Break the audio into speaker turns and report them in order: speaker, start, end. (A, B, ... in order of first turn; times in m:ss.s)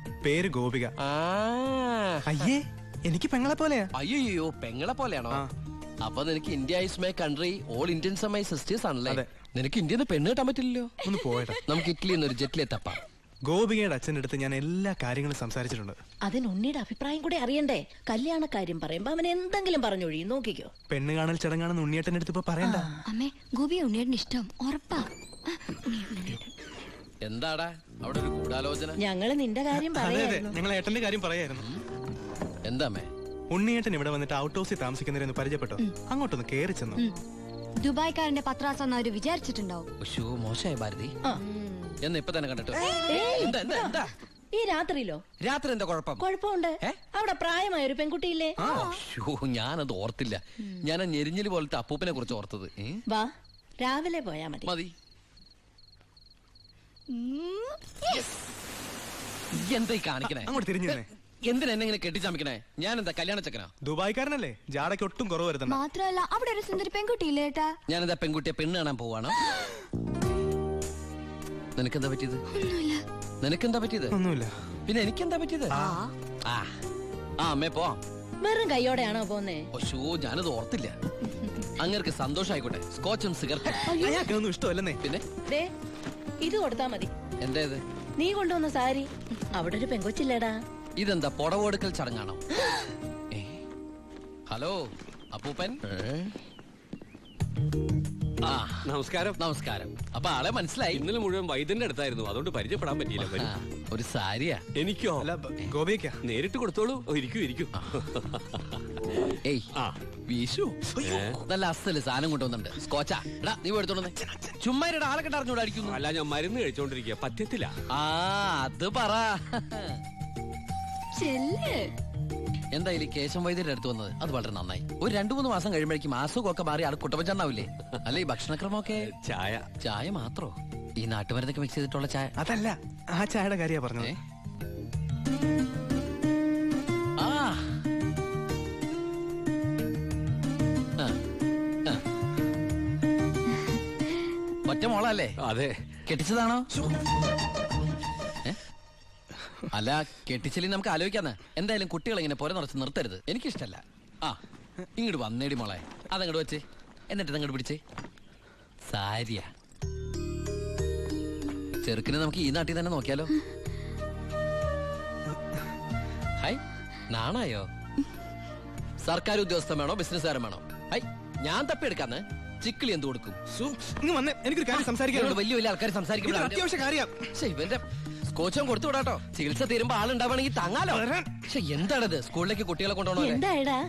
0:00.2-0:00.9 A
0:01.0-0:02.5 B
0:02.3-0:03.9 A
0:03.9-0:05.4 B
0:06.0-0:10.9 B
0:11.0-0:11.6 A
0:11.7-0:13.0 B
0:13.5-0:16.0 A
0:16.3-0:20.7 C
0:20.9-0:22.9 A
0:22.6-0:23.0 C
0:23.1-0:26.3 D
0:26.0-0:26.5 C
0:27.2-0:29.0 B
0:29.0-0:30.6 C
0:29.7-0:31.7 A
0:32.6-0:33.1 B
0:33.5-0:37.0 A
0:37.8-0:39.9 D
0:40.0-0:41.2 B
0:42.0-0:44.1 B
0:42.9-0:43.2 D
0:42.9-0:44.0 C
0:44.5-0:45.2 C
0:45.4-0:46.3 B
0:46.2-0:48.6 C
0:48.6-0:48.9 A
0:48.6-0:49.0 D
0:48.7-0:53.0 B
0:53.8-0:54.7 C
0:54.6-0:54.9 B
0:57.1-0:58.4 D
0:59.5-1:03.7 B
1:00.4-1:01.1 A
1:03.8-1:05.8 A
1:05.7-1:07.7 D
1:07.9-1:09.4 B
1:11.8-1:12.4 B
1:12.5-1:13.0 D
1:13.4-1:14.2 B
1:14.1-1:14.5 A
1:14.8-1:15.8 B
1:15.7-1:16.0 A
1:15.7-1:16.1 D
1:16.4-1:16.7 B
1:17.4-1:18.0 B
1:18.4-1:19.7 C
1:19.7-1:21.0 B
1:21.8-1:23.9 B
1:23.9-1:24.3 C
1:23.9-1:25.0 A
1:26.4-1:27.1 C
1:27.4-1:27.8 B
1:28.2-1:30.6 C
1:31.0-1:32.4 B
1:34.5-1:36.3 B
1:38.4-1:41.0 B
1:38.8-1:39.4 E
1:40.9-1:43.5 E
1:43.2-1:44.6 B
1:44.8-1:45.3 E
1:45.2-1:46.2 A
1:46.2-1:48.6 E
1:49.4-1:49.7 B
1:50.3-1:56.0 B
1:51.0-1:51.4 E
1:55.8-1:57.7 E
1:57.9-2:00.0 B
2:01.2-2:01.9 D
2:02.7-2:09.1 B
2:09.0-2:09.6 E
2:09.8-2:12.3 B
2:12.4-2:14.1 A
2:17.2-2:17.7 B
2:24.6-2:25.4 B
2:25.4-2:25.8 E
2:26.1-2:26.7 B
2:29.7-2:34.4 B
2:35.0-2:37.8 B
2:38.9-2:39.5 B
2:41.8-2:43.3 B
2:46.4-2:47.7 B
2:49.0-2:53.4 B
2:53.5-2:55.4 A
2:54.7-2:56.6 B
2:56.2-2:57.2 A
2:57.3-3:03.4 B
3:00.9-3:01.3 A
3:03.2-3:03.8 C